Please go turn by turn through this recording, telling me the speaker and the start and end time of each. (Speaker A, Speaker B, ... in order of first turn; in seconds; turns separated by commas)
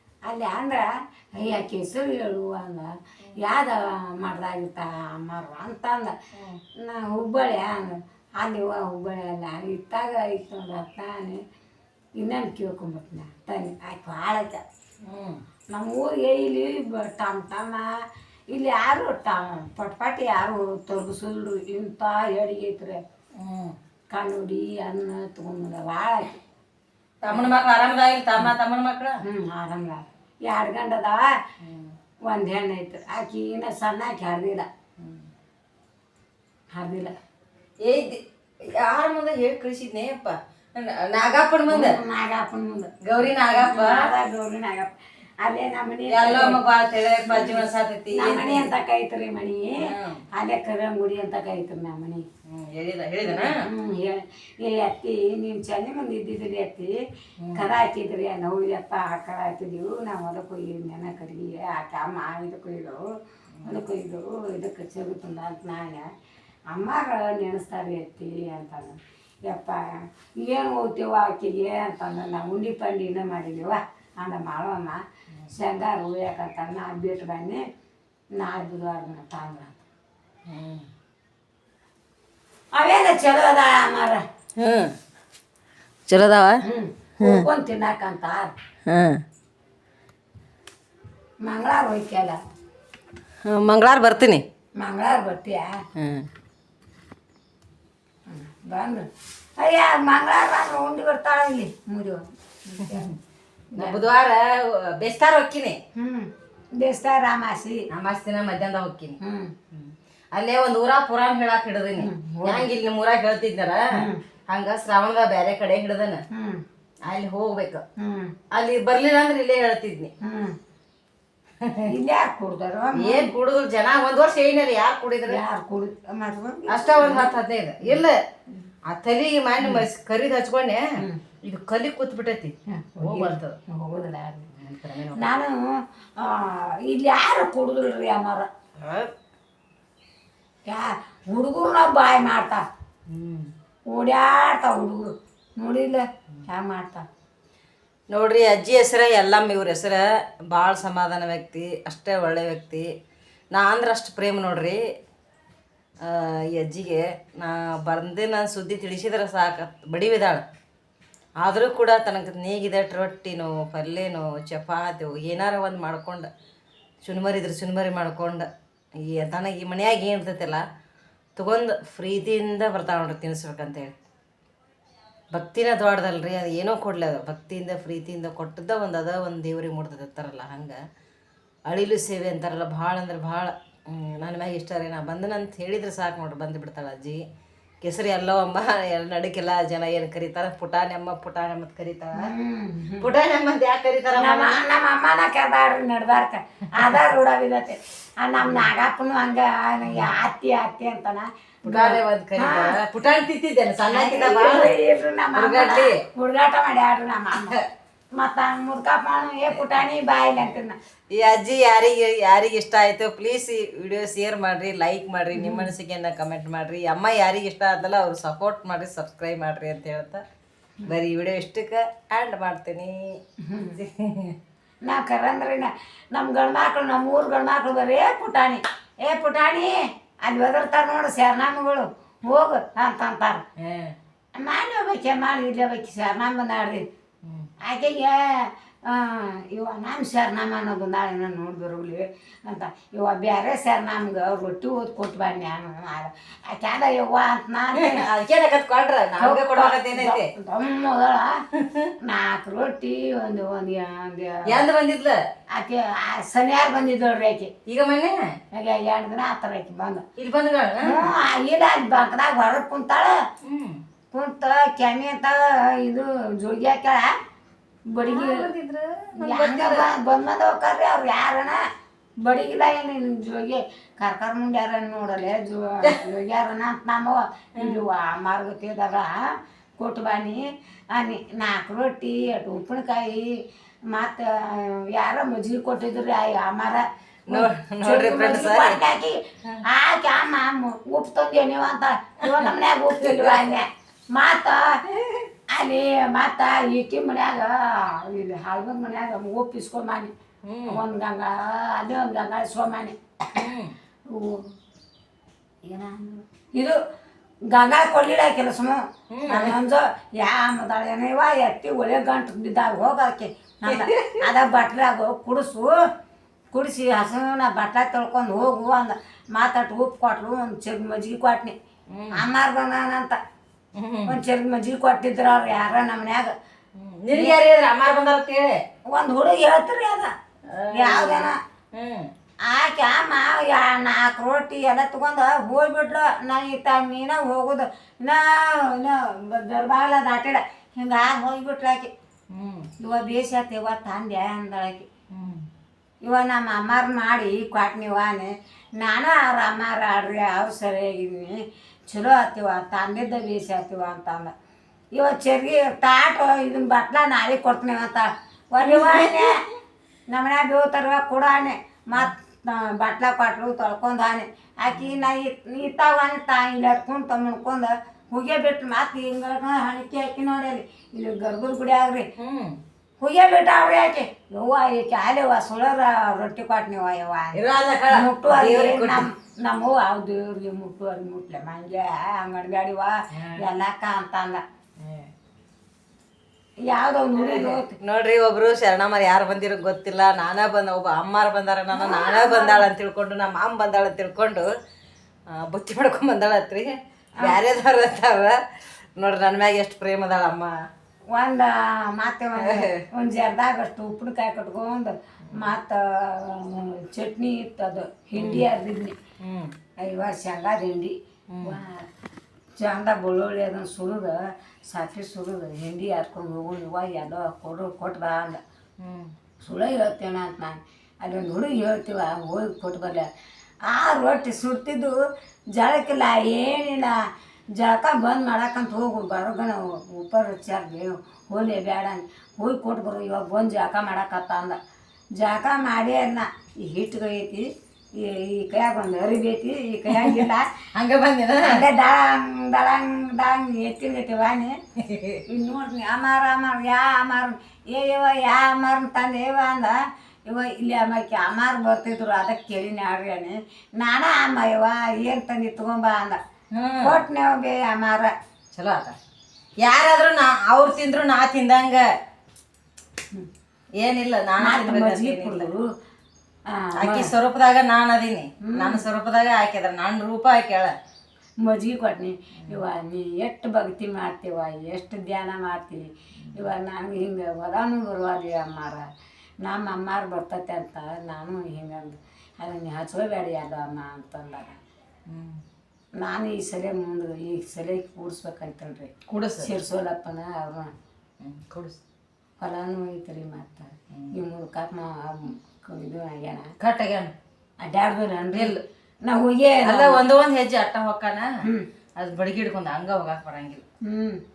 Speaker A: 0.3-6.2, Speaker B: 6.3-6.6, Speaker A: 6.8-11.4, Speaker A: 12.2-14.6, Speaker B: 15.0-15.4, Speaker A: 15.7-17.9, Speaker A: 18.5-23.0, Speaker B: 23.4-23.8, Speaker A: 24.1-26.4, Speaker B: 27.2-29.2, Speaker A: 29.2-31.3, Speaker B: 31.6-31.9, Speaker A: 32.3-34.7, Speaker B: 35.0-35.3, Speaker A: 36.7-37.1, Speaker B: 37.8-42.0, Speaker A: 41.7-42.9, Speaker B: 43.0-44.1, Speaker A: 43.5-46.6, Speaker B: 46.1-48.7, Speaker A: 47.2-52.2, Speaker B: 49.8-50.2, Speaker B: 52.5-53.6, Speaker A: 53.3-57.0, Speaker B: 57.4-57.7, Speaker A: 57.5-63.1, Speaker B: 63.5-63.8, Speaker A: 63.6-66.1, Speaker A: 66.7-77.6, Speaker A: 78.4-79.8, Speaker B: 80.5-80.9, Speaker A: 82.7-84.2, Speaker B: 84.6-85.0, Speaker B: 86.1-86.6, Speaker A: 86.6-88.5, Speaker B: 87.2-87.5, Speaker B: 88.9-89.2, Speaker A: 91.4-92.4, Speaker B: 93.4-94.5, Speaker A: 94.8-95.8, Speaker B: 96.0-96.3, Speaker A: 98.3-103.1, Speaker B: 102.8-103.2, Speaker A: 103.7-104.0, Speaker B: 103.8-105.8, Speaker A: 106.0-107.9, Speaker B: 107.9-109.2, Speaker A: 109.2-109.5, Speaker B: 109.7-116.2, Speaker A: 112.0-112.7, Speaker A: 113.9-114.2, Speaker A: 116.3-116.6, Speaker B: 117.0-117.8, Speaker A: 118.0-118.3, Speaker B: 118.5-120.1, Speaker A: 120.2-120.6, Speaker B: 121.6-121.9, Speaker A: 121.9-123.3, Speaker B: 123.0-125.4, Speaker A: 125.3-128.0, Speaker B: 126.7-128.2, Speaker B: 128.9-130.9, Speaker A: 129.6-129.9, Speaker B: 131.4-133.6, Speaker A: 132.7-134.5, Speaker B: 134.6-135.3, Speaker A: 135.2-138.5, Speaker B: 138.8-139.1, Speaker A: 140.7-142.6, Speaker B: 143.1-143.5, Speaker A: 143.9-147.0, Speaker B: 148.1-152.9, Speaker B: 153.5-154.8, Speaker B: 156.0-160.4, Speaker B: 161.4-166.3, Speaker B: 167.0-170.6, Speaker B: 171.4-173.9, Speaker B: 175.3-180.8, Speaker B: 181.7-187.2, Speaker B: 187.8-192.3, Speaker A: 192.2-193.1, Speaker B: 193.0-194.6, Speaker A: 194.2-202.8, Speaker B: 199.8-200.1, Speaker B: 201.7-204.8, Speaker A: 203.9-207.6, Speaker B: 205.3-206.0, Speaker B: 207.3-207.6, Speaker A: 208.2-210.8, Speaker B: 211.1-220.2, Speaker A: 215.3-215.7, Speaker B: 220.9-223.2, Speaker A: 223.4-223.8, Speaker B: 223.7-224.4, Speaker A: 224.8-233.4, Speaker B: 233.6-233.9, Speaker A: 234.4-236.8, Speaker A: 237.7-248.1, Speaker B: 247.7-250.3, Speaker A: 249.2-251.4, Speaker B: 251.6-251.9, Speaker A: 252.0-254.6, Speaker B: 254.4-255.2, Speaker A: 255.5-257.5, Speaker B: 257.7-258.4, Speaker A: 258.5-260.0, Speaker B: 260.2-261.1, Speaker A: 260.8-263.2, Speaker B: 263.4-263.8, Speaker A: 264.1-267.1, Speaker A: 267.9-268.5, Speaker B: 268.0-269.9, Speaker A: 269.2-271.6, Speaker A: 272.2-279.2, Speaker B: 277.6-277.8, Speaker A: 279.8-283.4, Speaker A: 283.9-294.8, Speaker B: 287.3-288.8, Speaker B: 293.0-293.5, Speaker B: 294.9-295.3, Speaker A: 295.5-300.1, Speaker B: 300.5-300.8, Speaker A: 300.7-303.0, Speaker B: 303.4-303.8, Speaker A: 304.1-304.5, Speaker A: 305.7-306.8, Speaker A: 307.5-315.7, Speaker B: 309.1-309.6, Speaker B: 313.6-314.3, Speaker A: 316.5-321.6, Speaker B: 321.9-322.2, Speaker A: 322.1-323.2, Speaker B: 323.8-324.2, Speaker A: 324.1-326.3, Speaker B: 326.8-328.6, Speaker A: 327.1-327.4, Speaker A: 328.9-330.1, Speaker B: 330.5-332.1, Speaker A: 330.7-331.4, Speaker A: 332.5-341.9, Speaker B: 342.3-342.7, Speaker A: 342.8-344.9, Speaker B: 345.1-345.4, Speaker A: 346.0-354.3, Speaker A: 354.9-359.4, Speaker B: 358.6-359.4, Speaker A: 360.1-372.1, Speaker B: 364.7-365.0, Speaker B: 372.2-372.6, Speaker A: 373.0-384.4, Speaker B: 377.3-379.1, Speaker B: 383.1-383.4, Speaker B: 384.8-385.1, Speaker A: 386.7-387.8, Speaker B: 387.2-394.5, Speaker A: 391.7-392.7, Speaker B: 395.3-400.5, Speaker A: 401.1-409.0, Speaker B: 402.4-402.8, Speaker B: 408.2-408.5, Speaker B: 409.2-409.5, Speaker A: 409.8-411.9, Speaker B: 411.3-411.6, Speaker A: 412.6-418.4, Speaker B: 418.8-419.1, Speaker A: 419.4-423.1, Speaker A: 423.7-425.0, Speaker A: 425.5-427.0, Speaker A: 427.6-434.6, Speaker A: 435.2-440.6, Speaker B: 439.9-441.6, Speaker A: 441.4-444.6, Speaker B: 444.8-445.2, Speaker A: 445.3-456.2, Speaker B: 456.5-457.0, Speaker A: 456.8-458.1, Speaker B: 458.5-459.0, Speaker B: 459.6-461.9, Speaker B: 463.8-465.5, Speaker A: 464.4-465.7, Speaker A: 466.5-467.1, Speaker B: 466.8-470.7, Speaker A: 468.5-468.9, Speaker A: 471.4-478.8, Speaker B: 476.2-476.5, Speaker A: 479.4-484.6, Speaker B: 485.1-485.4, Speaker A: 486.0-490.7, Speaker B: 489.1-489.5, Speaker B: 491.2-491.8, Speaker A: 492.4-496.5, Speaker B: 496.6-497.1, Speaker A: 497.6-500.0, Speaker B: 498.3-498.6, Speaker B: 499.6-501.3, Speaker B: 502.0-503.6, Speaker A: 503.9-504.2